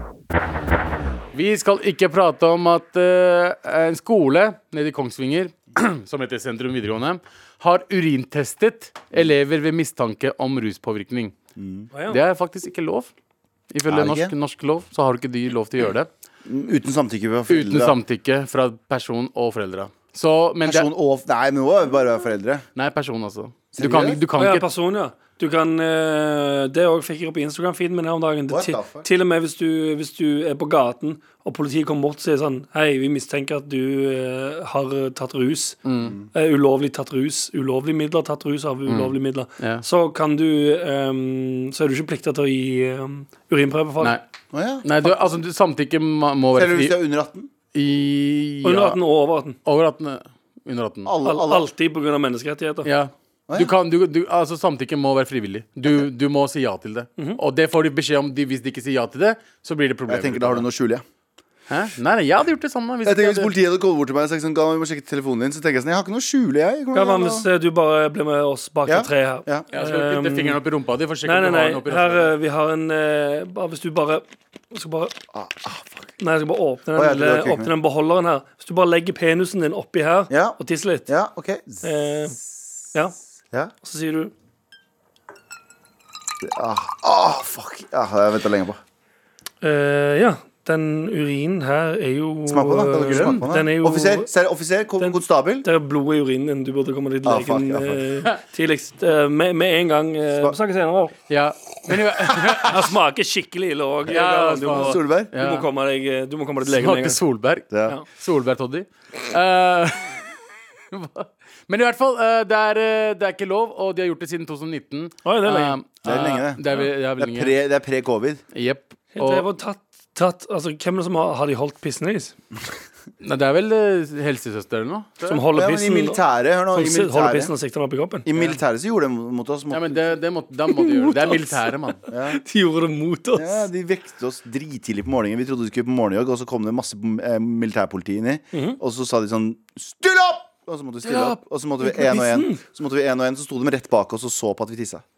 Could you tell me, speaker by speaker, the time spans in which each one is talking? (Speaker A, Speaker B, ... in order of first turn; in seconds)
Speaker A: 1.3-11.3, 12.1-13.1, 13.7-16.1, 17.5-20.9, 22.8-24.7, 35.9-36.1, 38.9-39.8, 44.8-47.0, 47.7-49.0, 49.6-51.1, 52.9-60.7, 61.7-63.5, 69.7-72.3, 93.1-93.4, 101.3-102.9, 104.1-105.7, 106.7-110.2, 110.9-117.5, 118.5-119.5, 123.2-125.4, 129.7-132.0
Speaker B: 11.6-11.9, 13.9-14.3, 16.4-18.0, 20.6-22.7, 23.7-24.2, 28.5-29.1, 44.5-45.2, 46.5-47.5, 51.0-51.7, 53.5-53.7, 60.1-61.0, 63.0-67.5, 68.9-69.7, 75.3-75.9, 77.0-77.7, 80.3-81.8, 86.4-88.8, 92.5-95.7, 97.2-98.0, 104.7-105.3, 107.7-108.0, 116.0-118.4, 125.5-127.5, 128.2-130.1, 132.1-132.4, 133.3-145.0
Speaker C: 11.9-12.2, 24.4-35.8, 36.3-44.2, 48.6-49.6, 51.2-52.9, 66.9-70.6, 71.2-75.2, 76.2-81.1, 81.8-82.4, 83.8-84.3, 89.6-94.3, 95.0-101.2, 102.5-107.2, 115.2-115.8, 119.1-122.3, 125.3-126.2, 126.7-128.3, 130.7-131.6, 132.3-133.7, 138.5-138.8, 141.1-142.6